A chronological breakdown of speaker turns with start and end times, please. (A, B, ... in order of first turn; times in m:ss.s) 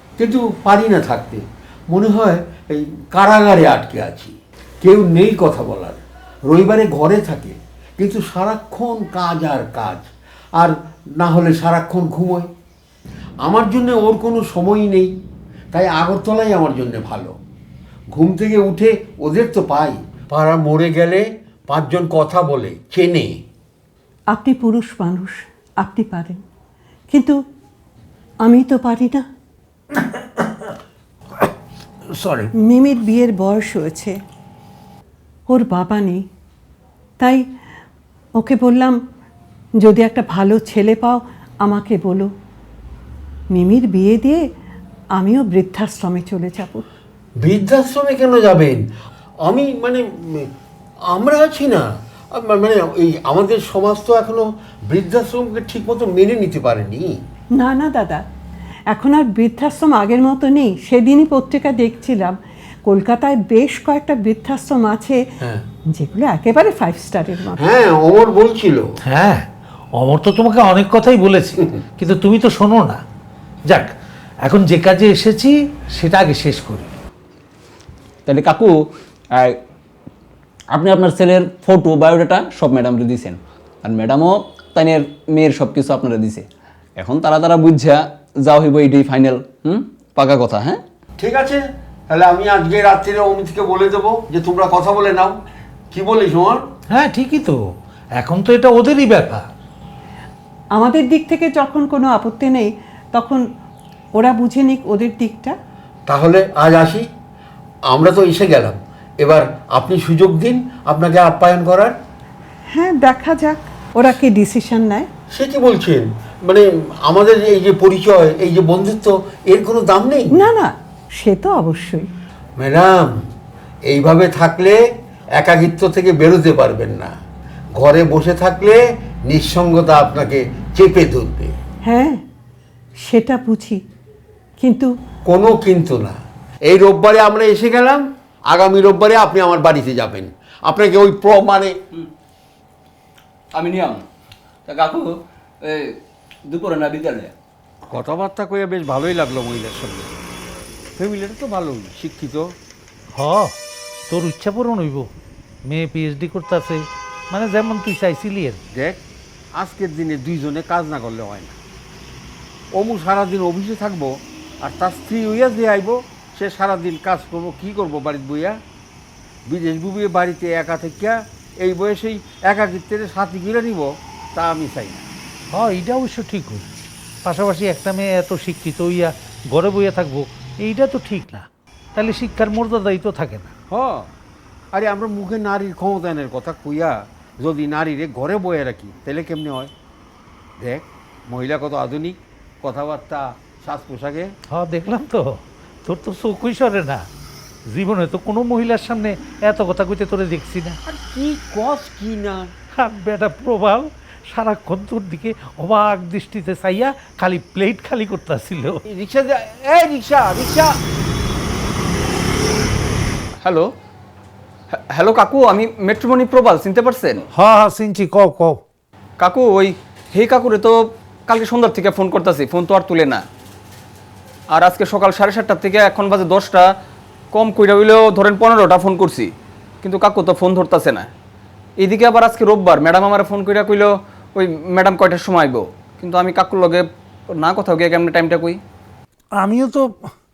0:00.2-0:12.5 A
0:13.4-0:15.1 A
0:15.7-0:17.4 A
0:18.1-0:23.4 A
0:24.3-0:26.4 B
0:27.1-0:27.4 B
0:28.4-0:29.3 B
0:29.9-0:30.7 C
0:32.1-0:32.5 C
0:32.6-0:34.2 B
0:35.5-0:36.2 B
0:38.4-0:39.0 B
0:39.8-0:42.3 B
0:43.5-0:44.4 B
0:45.2-0:46.9 B
0:47.4-0:48.8 A
0:49.4-0:50.5 A
0:51.1-0:57.2 A
0:57.6-0:58.2 B
0:58.9-1:05.2 B
1:05.4-1:05.7 A
1:05.9-1:07.6 B
1:07.6-1:08.9 A
1:09.0-1:13.0 C
1:14.4-1:16.9 C
1:18.3-1:18.7 D
1:19.3-1:19.6 D
1:20.7-1:26.4 D
1:27.0-1:30.8 D
1:31.2-1:35.4 A
1:35.9-1:36.7 A
1:36.9-1:37.6 C
1:38.2-1:39.5 C
1:40.7-1:43.4 B
1:44.2-1:45.6 B
1:46.1-1:47.1 A
1:47.9-1:52.0 A
1:52.7-1:55.1 B
1:55.3-2:00.4 A
2:00.3-2:02.1 B
2:02.6-2:03.2 A
2:03.9-2:04.8 A
2:05.4-2:07.2 A
2:07.8-2:11.6 A
2:11.9-2:12.2 B
2:13.0-2:13.8 B
2:14.6-2:14.9 B
2:15.3-2:21.8 A
2:23.5-2:24.0 D
2:24.7-2:27.3 D
2:27.9-2:30.2 A
2:31.0-2:32.6 A
2:33.1-2:33.6 C
2:34.1-2:35.1 C
2:35.7-2:38.6 C
2:38.7-2:39.0 A
2:39.6-2:41.6 A
2:42.7-2:48.6 A
2:49.5-2:55.1 A
2:55.5-2:56.7 C
2:57.2-3:03.5 C
3:03.7-3:04.1 A
3:04.7-3:09.7 A
3:10.6-3:14.4 A
3:14.5-3:17.1 C
3:17.7-3:20.8 C
3:20.9-3:22.5 A
3:22.7-3:28.8 C
3:28.9-3:30.8 A
3:33.4-3:33.7 D
3:34.7-3:37.3 D
3:37.3-3:38.6 C
3:39.2-3:43.2 D
3:44.5-3:46.7 D
3:47.3-3:49.3 D
3:49.8-3:51.1 D
3:51.8-3:58.6 D
3:59.4-4:00.1 C